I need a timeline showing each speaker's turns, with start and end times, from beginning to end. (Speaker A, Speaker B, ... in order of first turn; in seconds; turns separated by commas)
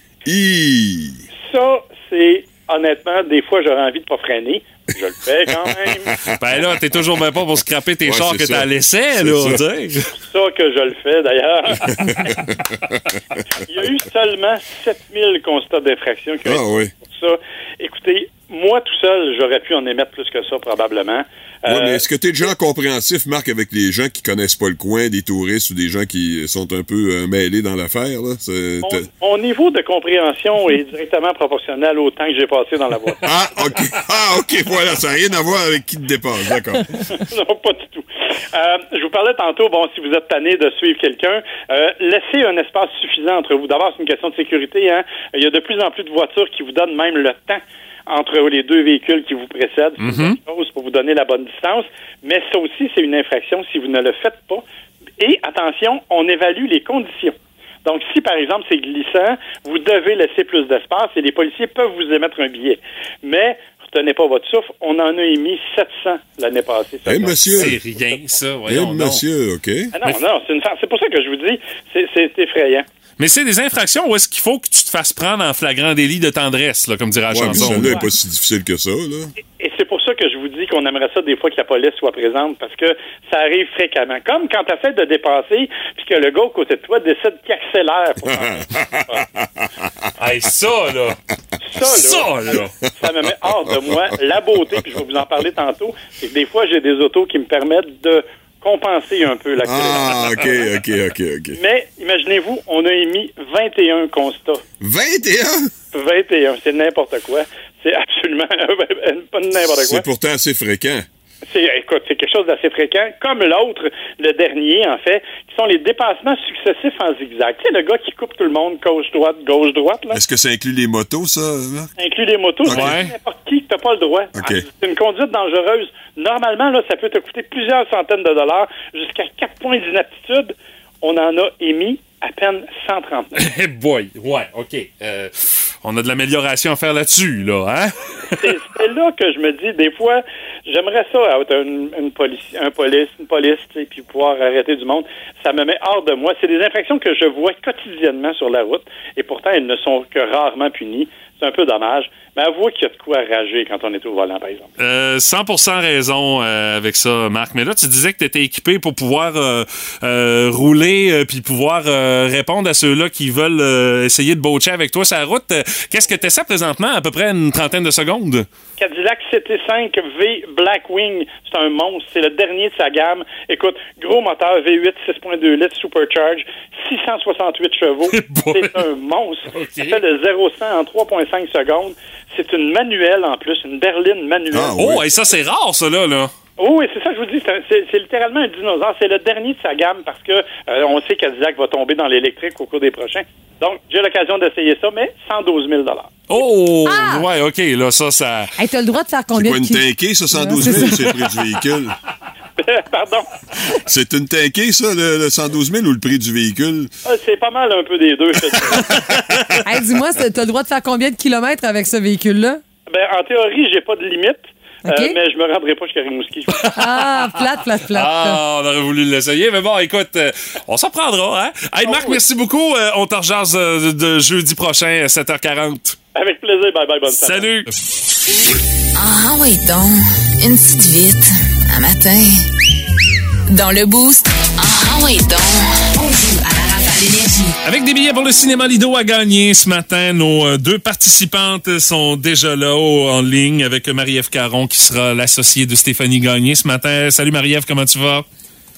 Speaker A: 0.2-1.2, Speaker B: 1.4-6.2, Speaker A: 5.9-6.2, Speaker C: 6.4-10.1, Speaker A: 8.1-9.6, Speaker B: 10.2-12.1, Speaker A: 11.9-13.0, Speaker B: 13.7-22.5, Speaker A: 16.4-16.9, Speaker A: 21.6-29.1, Speaker B: 28.8-33.2, Speaker A: 33.2-37.1, Speaker B: 37.2-54.6, Speaker C: 50.0-50.4, Speaker B: 55.2-68.4, Speaker A: 67.1-67.8, Speaker C: 67.6-69.2, Speaker A: 68.7-69.9, Speaker B: 69.9-72.9, Speaker C: 73.2-78.0, Speaker A: 77.3-79.3, Speaker B: 77.5-78.1, Speaker B: 79.6-89.3, Speaker A: 88.3-90.1, Speaker C: 90.2-91.2, Speaker B: 91.6-100.7, Speaker C: 91.8-92.7, Speaker A: 99.6-101.6, Speaker B: 101.5-104.6, Speaker A: 104.8-105.7, Speaker B: 105.9-110.0, Speaker A: 109.7-111.0, Speaker B: 111.5-120.2, Speaker A: 120.1-121.9, Speaker B: 122.0-133.4, Speaker A: 122.6-123.0, Speaker C: 122.7-123.1, Speaker A: 124.3-124.7, Speaker C: 133.4-138.0, Speaker B: 138.3-154.7, Speaker C: 154.8-168.5, Speaker B: 168.8-184.9, Speaker C: 178.1-178.8, Speaker C: 179.5-180.0, Speaker A: 184.5-185.0, Speaker C: 184.8-186.3, Speaker B: 186.6-196.2, Speaker C: 196.3-198.5, Speaker D: 196.8-197.2, Speaker D: 198.6-201.3, Speaker A: 199.3-201.9, Speaker B: 202.6-203.3, Speaker A: 203.9-206.9, Speaker B: 207.1-209.0, Speaker C: 208.8-209.6, Speaker D: 209.7-212.6, Speaker B: 212.9-216.7, Speaker D: 214.8-215.2, Speaker C: 216.6-217.4, Speaker D: 216.7-218.4, Speaker C: 217.9-226.0, Speaker B: 221.8-222.2, Speaker B: 226.2-227.6, Speaker C: 227.1-227.7, Speaker E: 228.9-232.5, Speaker E: 233.5-237.6, Speaker C: 237.6-248.2